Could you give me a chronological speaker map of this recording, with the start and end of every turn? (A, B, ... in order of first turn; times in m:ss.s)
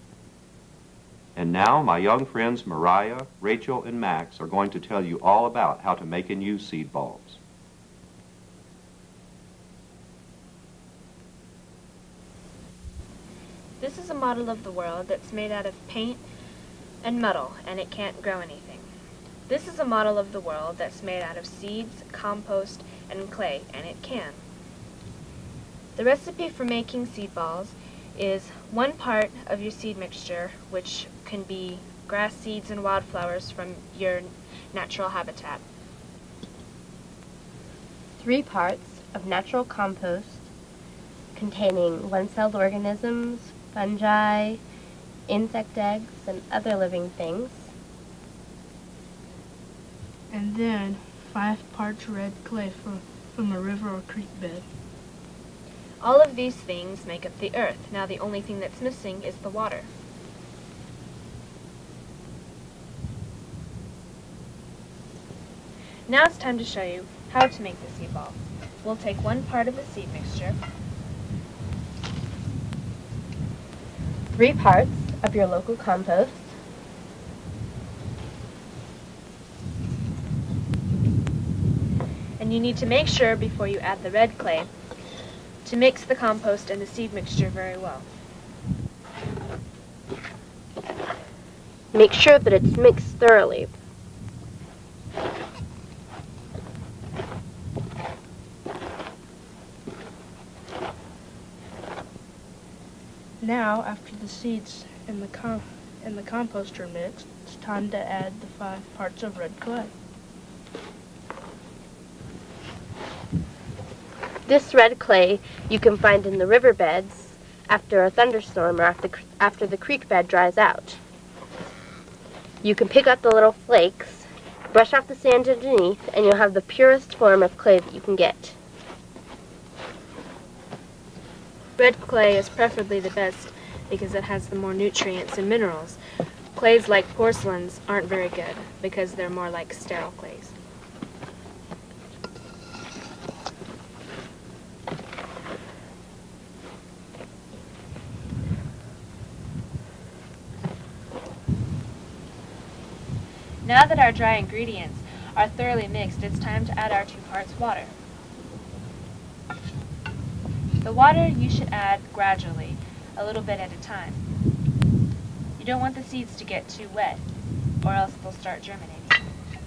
0:01.4-0:07.4 A
0:13.8-0:16.2 B
0:17.0-0:18.9 B
0:19.5-0:24.4 B
0:26.0-0:35.6 B
0:38.2-0:40.5 C
0:41.3-0:44.6 C
0:45.3-0:47.7 C
0:50.3-0:54.6 D
0:56.0-0:59.9 B
1:06.1-1:10.6 B
1:14.4-1:16.5 C
1:22.4-1:24.7 B
1:25.6-1:28.0 B
1:31.9-1:33.7 C
1:43.4-1:49.9 D
1:54.5-2:01.0 C
2:02.6-2:08.6 C
2:11.8-2:16.0 B
2:16.5-2:20.5 B
2:33.6-2:37.9 B
2:40.8-2:44.2 B
2:45.6-2:47.2 B
2:47.8-2:49.2 B